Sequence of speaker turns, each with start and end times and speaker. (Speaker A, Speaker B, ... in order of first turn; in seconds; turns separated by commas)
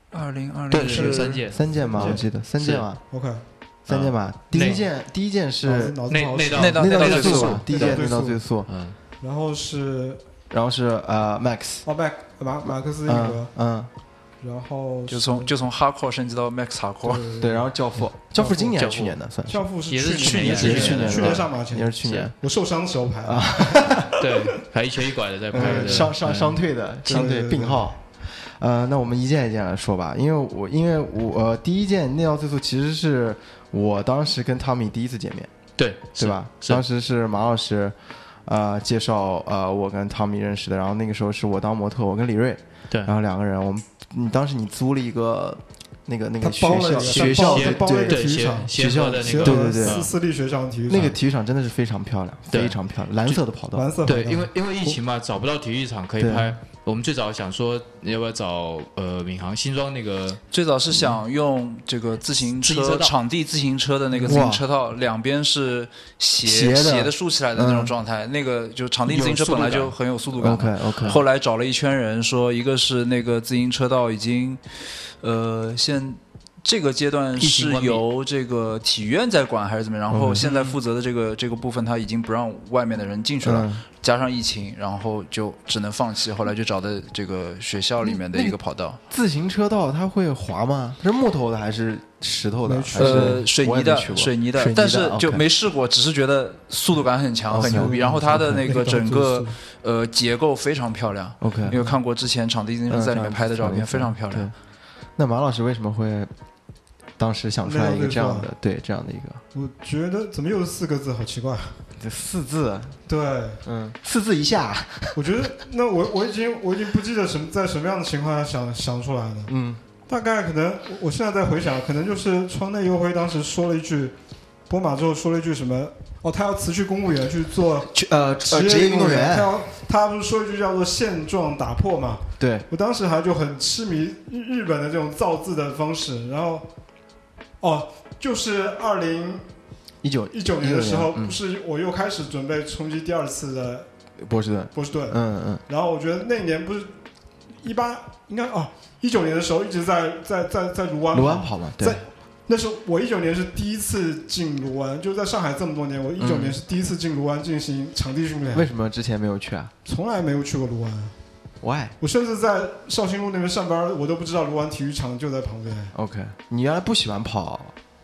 Speaker A: 0.1-1.4, Speaker B: 0.7-2.9, Speaker C: 0.8-2.3, Speaker D: 1.5-3.0, Speaker C: 3.1-3.4, Speaker D: 3.9-6.0, Speaker B: 3.9-4.8, Speaker C: 5.6-8.4, Speaker B: 6.1-8.0, Speaker A: 6.5-7.6, Speaker D: 6.7-8.7, Speaker B: 8.7-9.0, Speaker C: 9.2-10.2, Speaker D: 10.5-11.8, Speaker C: 11.8-13.5, Speaker D: 12.6-13.9, Speaker C: 14.4-15.5, Speaker A: 15.1-17.2, Speaker C: 17.0-17.7, Speaker D: 17.4-19.6, Speaker C: 18.3-18.8, Speaker B: 18.8-19.2, Speaker C: 19.5-24.4, Speaker B: 19.9-21.5, Speaker A: 20.2-21.2, Speaker D: 20.4-22.3, Speaker B: 22.0-22.3, Speaker D: 23.2-24.1, Speaker B: 24.2-26.6, Speaker D: 25.5-35.5, Speaker C: 25.5-26.1, Speaker C: 27.1-27.9, Speaker B: 35.8-36.8, Speaker D: 36.2-50.0, Speaker C: 46.4-51.1, Speaker B: 46.6-50.1, Speaker D: 50.9-53.9, Speaker B: 52.5-53.4, Speaker C: 53.7-55.0, Speaker B: 54.0-60.4, Speaker D: 56.2-56.5, Speaker A: 60.5-89.0, Speaker B: 62.4-63.1, Speaker D: 64.2-64.6, Speaker D: 66.4-67.9, Speaker D: 69.1-71.2, Speaker B: 69.3-69.9, Speaker B: 71.0-71.2, Speaker B: 77.4-78.0, Speaker D: 80.1-80.7, Speaker D: 83.4-83.8, Speaker D: 88.0-88.6, Speaker D: 89.1-95.4, Speaker C: 92.7-93.4, Speaker A: 93.0-104.5, Speaker D: 97.5-98.8, Speaker C: 97.5-99.6, Speaker D: 101.4-101.8, Speaker C: 101.7-102.0, Speaker D: 102.9-104.5, Speaker D: 105.2-106.3, Speaker D: 107.2-109.4, Speaker C: 107.6-108.5, Speaker C: 109.5-111.7, Speaker D: 112.0-113.0, Speaker C: 113.1-113.6, Speaker D: 113.6-115.2, Speaker C: 115.1-119.5, Speaker D: 119.5-119.8, Speaker C: 120.1-124.1, Speaker C: 124.7-127.9, Speaker D: 127.9-129.5, Speaker C: 128.4-136.6, Speaker D: 132.4-132.7, Speaker C: 137.6-139.4, Speaker D: 140.0-141.4, Speaker C: 140.3-143.9, Speaker D: 144.2-145.6, Speaker C: 144.7-146.9, Speaker C: 147.6-158.7, Speaker D: 151.1-152.0, Speaker D: 156.2-156.6, Speaker D: 158.5-159.7, Speaker C: 159.8-161.1, Speaker D: 161.6-161.9, Speaker C: 162.0-165.9, Speaker D: 165.9-167.7